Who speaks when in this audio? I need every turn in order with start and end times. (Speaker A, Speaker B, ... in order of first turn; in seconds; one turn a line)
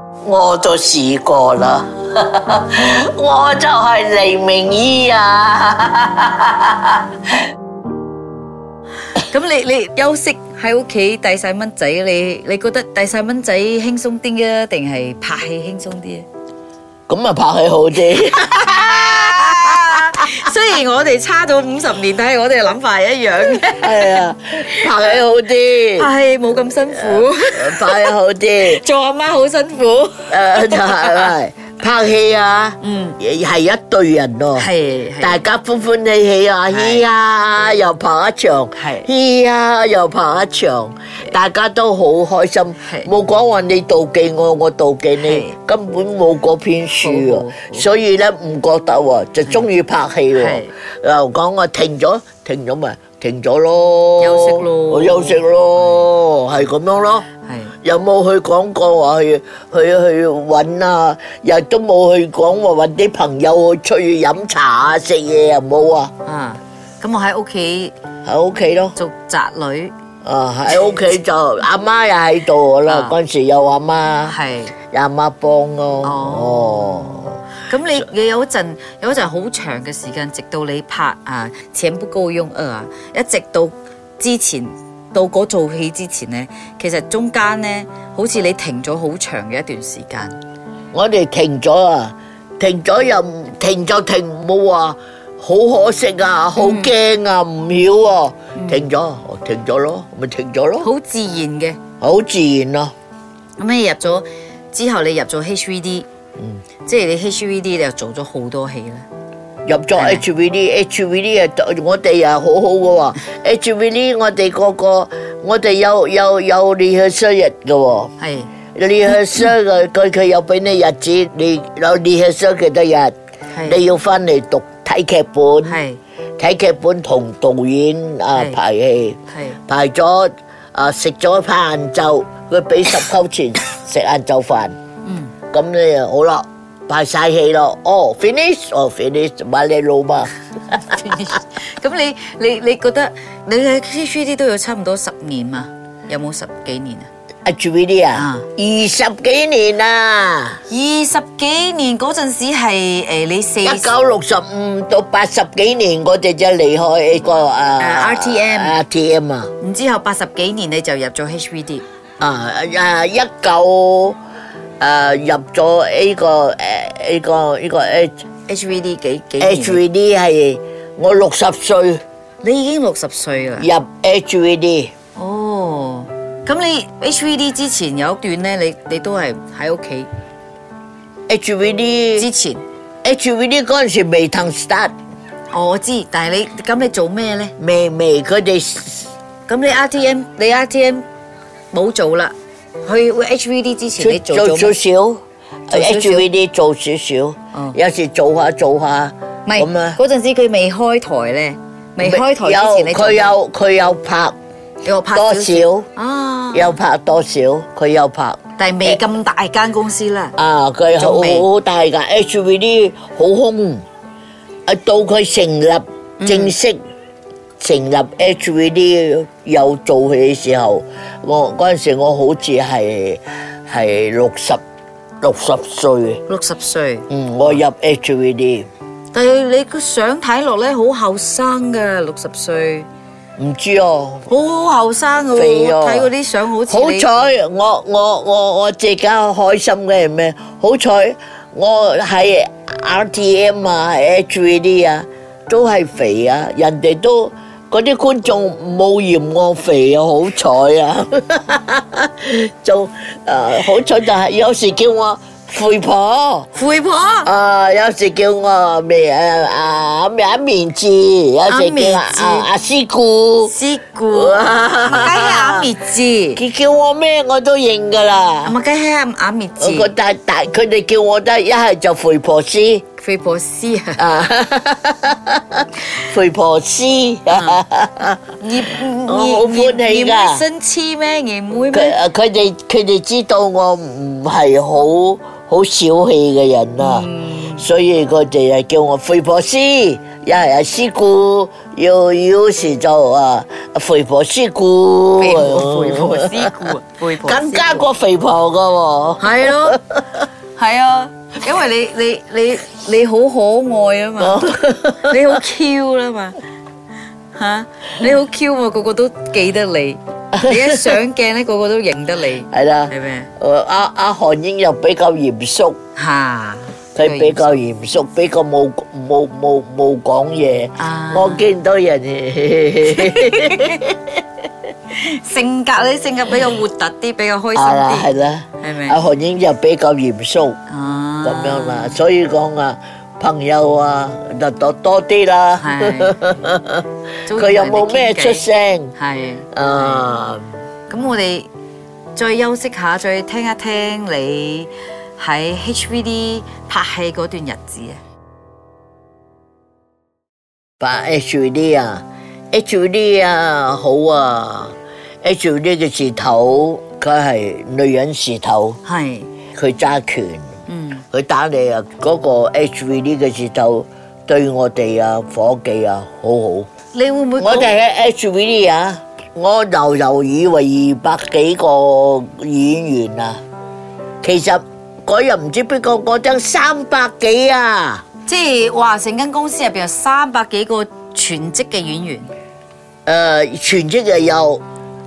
Speaker A: 0.2-7.0
Speaker B: 9.2-16.2
Speaker A: 17.1-20.1
Speaker B: 18.1-24.2
Speaker A: 23.6-26.1
Speaker B: 25.9-31.3
Speaker A: 26.9-28.8
Speaker A: 30.3-34.7
Speaker B: 32.8-33.2
Speaker B: 34.5-35.4
Speaker A: 35.2-57.2
Speaker B: 36.7-37.0
Speaker B: 38.8-39.1
Speaker B: 42.8-43.1
Speaker B: 45.2-45.5
Speaker B: 47.0-47.9
Speaker B: 50.3-50.7
Speaker B: 54.2-55.4
Speaker B: 57.4-57.7
Speaker A: 57.8-66.1
Speaker B: 66.2-67.9
Speaker A: 68.2-69.0
Speaker B: 69.0-69.9
Speaker A: 70.2-74.3
Speaker B: 72.8-73.2
Speaker B: 74.2-74.7
Speaker A: 74.9-77.4
Speaker B: 76.0-90.4
Speaker A: 90.9-100.9
Speaker B: 96.6-96.9
Speaker B: 98.5-98.8
Speaker B: 100.8-101.8
Speaker A: 102.0-102.9
Speaker B: 103.6-106.0
Speaker B: 106.8-109.0
Speaker A: 109.7-118.1
Speaker B: 109.9-110.2
Speaker B: 118.2-118.5
Speaker A: 118.7-123.1
Speaker B: 123.5-123.8
Speaker A: 123.6-125.8
Speaker B: 125.6-126.0
Speaker A: 126.4-134.8
Speaker B: 128.3-128.6
Speaker B: 129.3-129.6
Speaker B: 135.0-135.3
Speaker A: 135.5-141.0
Speaker B: 140.8-147.1
Speaker A: 147.4-150.6
Speaker B: 148.1-148.5
Speaker B: 150.7-153.9
Speaker A: 153.6-159.5
Speaker B: 157.8-158.8
Speaker B: 159.6-161.8
Speaker A: 162.2-164.2
Speaker A: 164.8-168.1
Speaker B: 168.5-169.8
Speaker A: 169.4-172.0
Speaker B: 172.4-173.7
Speaker A: 173.6-174.9
Speaker B: 175.2-180.1
Speaker A: 181.3-182.3
Speaker B: 182.2-182.6
Speaker A: 183.0-184.9
Speaker B: 185.5-187.5
Speaker A: 187.6-189.1
Speaker B: 189.5-191.0
Speaker B: 191.7-192.3
Speaker B: 192.8-194.8
Speaker A: 194.0-200.0
Speaker B: 195.7-196.3
Speaker B: 199.4-203.4
Speaker A: 202.0-204.3
Speaker B: 204.8-206.8
Speaker A: 205.1-205.9
Speaker A: 206.5-209.0
Speaker B: 208.6-210.3
Speaker A: 210.4-213.8
Speaker B: 211.0-211.5
Speaker A: 214.7-216.8
Speaker B: 216.2-216.5
Speaker A: 217.6-224.6
Speaker A: 225.2-226.2
Speaker B: 226.3-227.1
Speaker A: 227.1-228.7
Speaker B: 229.1-232.9
Speaker A: 233.4-234.2
Speaker B: 234.3-237.1
Speaker A: 235.3-236.1
Speaker A: 236.7-256.5
Speaker B: 256.5-257.3
Speaker A: 257.2-263.5
Speaker B: 261.5-262.5
Speaker B: 263.4-266.4
Speaker A: 264.1-265.7
Speaker A: 266.4-268.5
Speaker B: 268.4-269.9
Speaker A: 269.6-272.8
Speaker B: 273.0-274.0
Speaker A: 274.0-278.3
Speaker B: 277.3-277.6
Speaker B: 278.4-282.0
Speaker A: 279.0-280.4
Speaker A: 281.7-300.1
Speaker B: 286.8-287.6
Speaker B: 295.2-297.9
Speaker B: 299.2-299.8
Speaker B: 300.6-306.4
Speaker A: 304.2-305.4
Speaker B: 307.3-313.3
Speaker A: 310.3-310.9
Speaker A: 312.5-315.8
Speaker B: 315.9-317.6
Speaker A: 316.9-323.9
Speaker B: 320.8-321.5
Speaker B: 322.9-323.8
Speaker B: 324.9-329.0
Speaker A: 327.5-330.6
Speaker B: 330.7-332.0
Speaker A: 331.2-338.9
Speaker B: 335.6-336.2
Speaker B: 337.3-340.1
Speaker A: 339.5-340.5
Speaker B: 340.9-341.5
Speaker B: 342.1-348.0
Speaker A: 350.8-358.8
Speaker B: 358.8-359.3
Speaker A: 359.5-360.5
Speaker B: 360.7-361.0
Speaker A: 361.1-366.7
Speaker B: 366.9-367.7
Speaker A: 367.4-373.4
Speaker A: 374.2-378.0
Speaker B: 378.3-382.3
Speaker A: 383.1-384.6